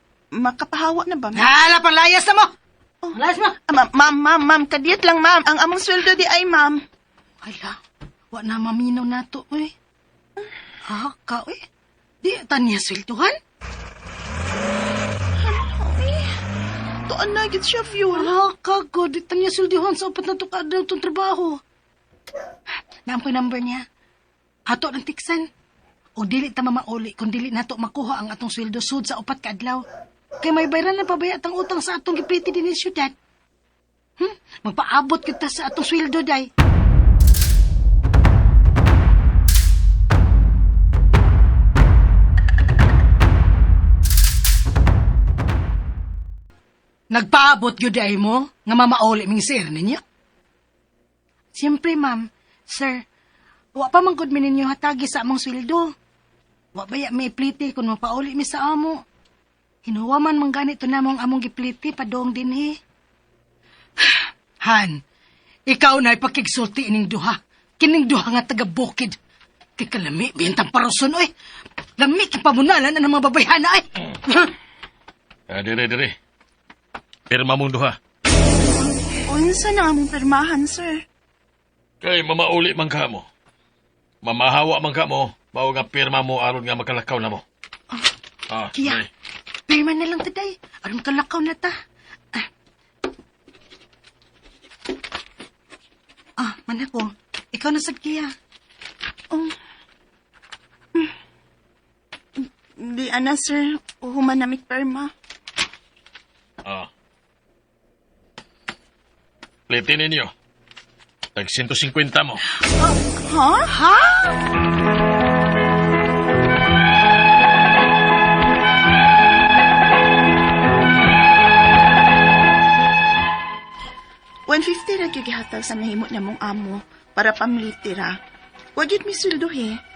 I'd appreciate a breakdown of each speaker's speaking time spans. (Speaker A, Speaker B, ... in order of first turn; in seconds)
Speaker A: 0.3-1.6, 3.0-6.8, 15.4-16.4, 17.1-18.3, 79.2-81.0, 99.3-99.6, 102.4-105.1, 113.2-113.7, 124.5-128.2, 128.8-129.8
Speaker B: 1.4-2.5, 3.1-3.5, 7.4-7.8, 8.3-9.7, 10.9-11.6, 12.2-13.4, 18.1-21.6, 23.1-23.8, 24.7-25.5, 26.2-29.9, 30.4-33.1, 34.2-36.5, 47.1-50.0, 51.5-53.0, 53.8-55.9, 56.8-59.0, 59.9-62.8, 64.0-65.0, 65.7-69.2, 69.8-71.3, 72.0-74.5, 88.7-89.0, 89.7-91.7, 96.4-98.3, 112.6-113.0, 113.7-114.3
Speaker C: 75.5-76.2, 77.3-78.0, 82.0-83.3, 84.2-87.4, 88.5-89.1, 109.7-110.3, 111.4-112.4